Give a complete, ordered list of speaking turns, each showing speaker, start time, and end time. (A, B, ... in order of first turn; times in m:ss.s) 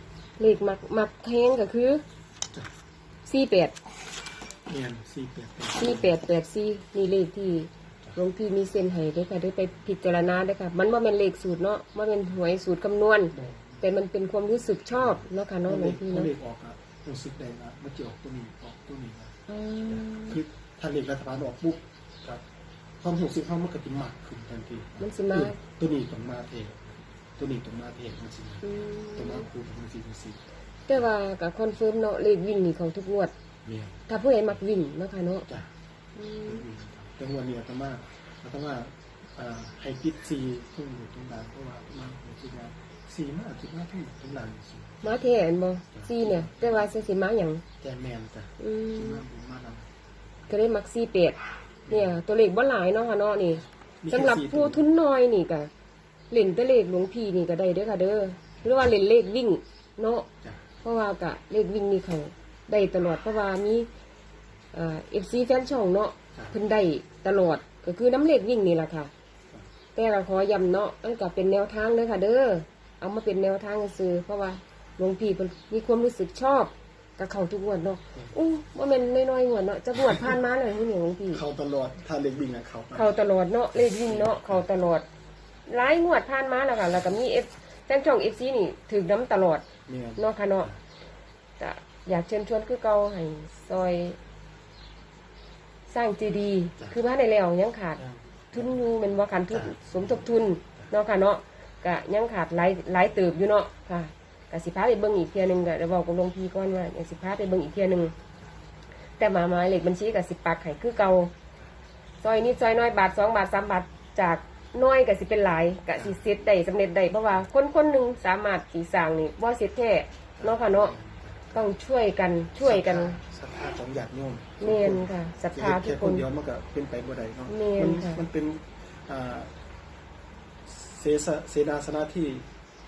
0:00.4-0:02.0 A
0:03.3-0:03.8 A
0:04.7-0:06.2 B
0:05.8-0:16.3 A
0:13.3-0:13.8 B
0:15.0-0:22.4 B
0:19.5-0:20.4 A
0:23.0-0:30.4 B
0:25.0-0:25.6 A
0:28.6-0:29.5 A
0:30.9-0:33.3 A
0:33.6-0:34.0 B
0:34.1-0:35.5 A
0:36.1-0:36.6 A
0:36.4-0:45.2 B
0:45.0-0:47.6 A
0:45.9-0:46.9 B
0:47.8-0:49.9 B
0:48.6-0:49.2 A
0:50.5-0:55.7 A
0:51.9-0:52.2 B
0:54.0-0:54.8 B
0:56.3-1:00.3 A
1:00.8-1:03.9 A
1:04.7-1:09.1 A
1:09.9-1:21.4 A
1:21.3-1:23.1 B
1:22.9-1:25.0 A
1:23.7-1:24.6 B
1:25.6-1:29.6 A
1:29.9-1:30.8 B
1:30.2-1:30.7 A
1:31.6-1:34.2 A
1:35.9-1:38.0 A
1:38.0-1:38.8 B
1:38.5-1:48.1 A
1:39.5-1:40.9 B
1:49.2-1:51.3 A
1:52.2-2:00.9 A
2:00.4-2:01.7 B
2:01.5-2:03.2 A
2:02.6-2:09.5 B
2:04.6-2:06.2 A
2:07.5-2:08.2 A
2:10.6-2:12.5 B